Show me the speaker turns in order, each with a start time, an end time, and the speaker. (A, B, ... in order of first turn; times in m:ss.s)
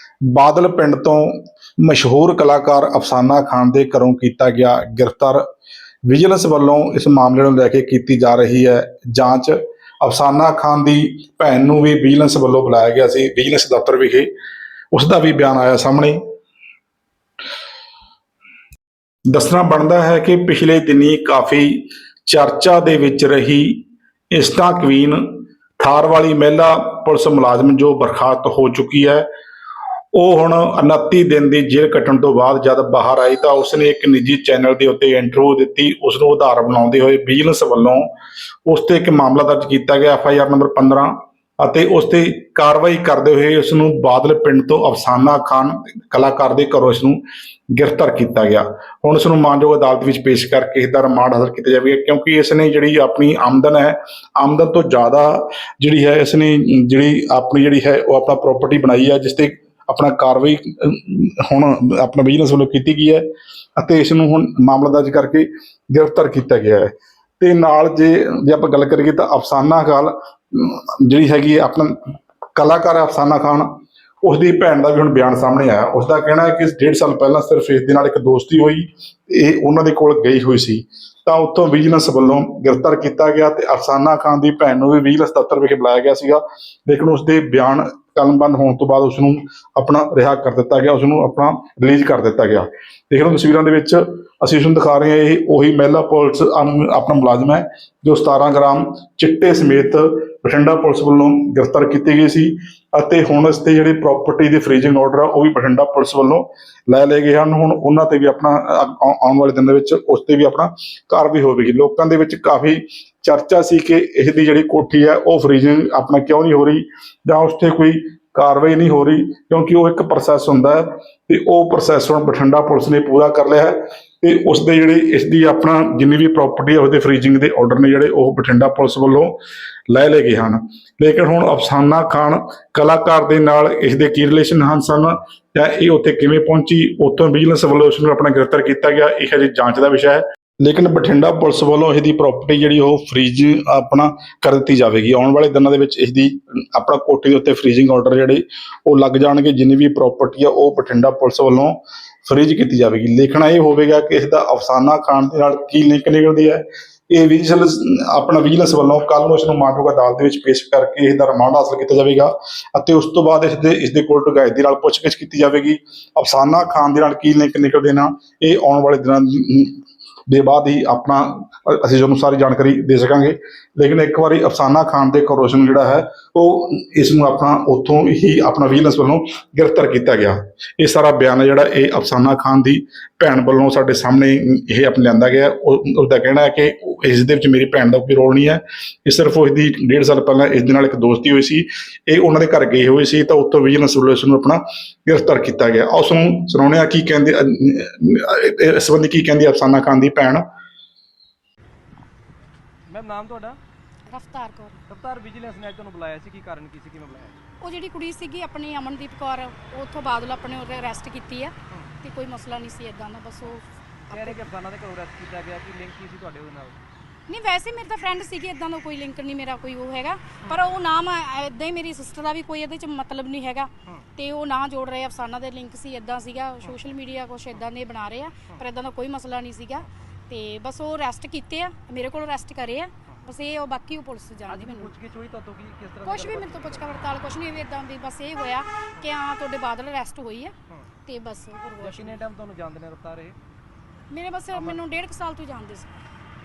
0:00.3-0:05.4 A
0:06.1-0:14.3 A
0:14.9-0:16.2 A
0:19.3-0:25.2 A
0:25.8-0:29.2 A
0:30.1-0:38.1 A
0:38.6-0:47.2 A
0:47.7-1:03.2 A
1:03.8-1:12.0 A
1:12.6-2:09.4 A
2:09.9-3:20.4 A
3:22.9-3:23.6 B
3:24.1-3:24.8 C
3:24.9-3:27.4 B
3:27.6-3:34.5 C
3:34.1-3:36.8 B
3:37.3-3:54.9 C
3:54.5-3:56.9 B
3:56.0-4:00.5 C
4:01.0-4:02.2 C
4:01.8-4:03.4 B
4:04.1-4:05.9 C
4:04.5-4:04.8 B